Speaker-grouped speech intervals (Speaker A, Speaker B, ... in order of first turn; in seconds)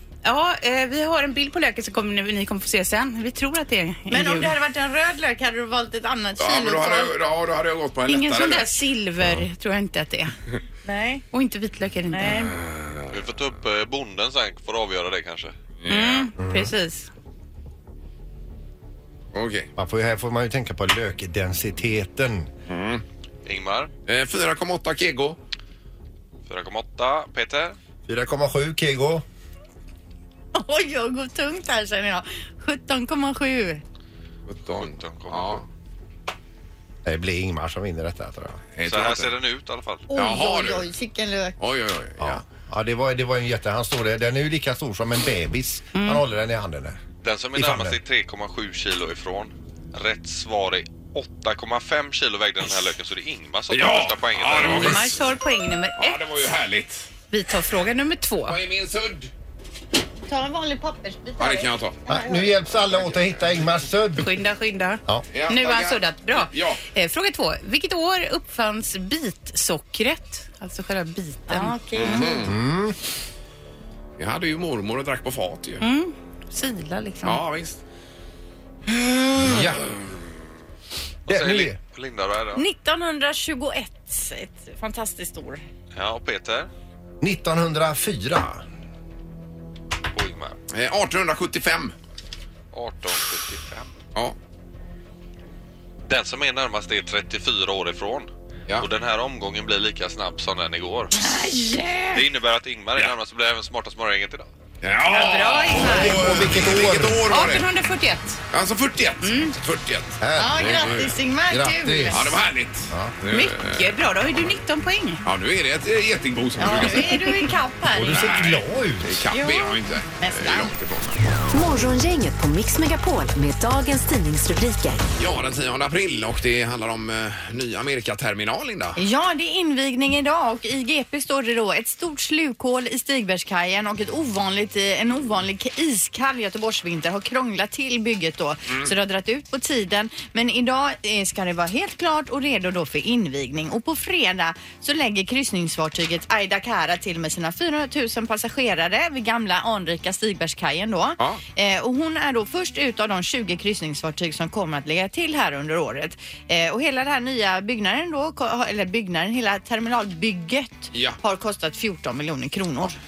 Speaker A: 0.2-4.5, 8.1-10.3, 11.3-12.5, 15.9-17.1, 46.0-46.2, 54.8-56.2, 57.3-58.6, 64.2-72.2, 75.8-77.4, 101.4-101.7, 107.3-108.4, 109.2-109.5, 113.3-115.2, 117.0-117.5, 119.4-119.8
Speaker B: 4.1-7.1, 10.8-11.3, 12.1-12.6, 30.6-33.8, 40.1-41.6, 60.3-62.4, 71.5-72.4, 82.5-85.6, 101.4-102.0, 105.1-106.1, 110.4-112.3, 116.6-118.3, 120.2-120.7, 129.0-163.0
Speaker C: 6.4-8.8, 12.5-13.1, 15.8-16.3, 19.3-19.7, 22.7-23.0, 24.1-25.4, 34.5-35.6, 38.8-39.3, 40.1-40.9, 41.6-42.4, 53.7-55.2, 56.0-57.1, 58.5-59.3, 61.4-62.0, 62.8-63.5, 65.3-66.8, 72.0-72.5, 74.2-75.8, 77.2-77.8, 78.9-79.9, 90.7-91.9, 104.8-107.7, 108.5-111.1, 112.1-113.9, 115.2-117.2, 118.0-121.2, 125.2-129.0, 160.9-161.2
Speaker D: 13.1-15.6, 23.4-23.9, 26.5-27.8, 34.7-35.6, 38.9-40.1, 47.2-55.1, 81.3-82.6, 86.0-86.7, 90.1-90.6, 92.7-93.9, 96.1-101.2, 102.1-104.5
Speaker E: 16.4-16.7, 19.8-22.5, 28.1-29.2, 37.0-38.6, 42.2-47.0, 47.5-48.0, 62.1-64.3, 72.4-73.0, 79.4-79.8, 81.3-81.8, 87.2-88.6, 105.8-107.3, 110.2-113.2, 117.9-119.3
Speaker F: 121.5-125.0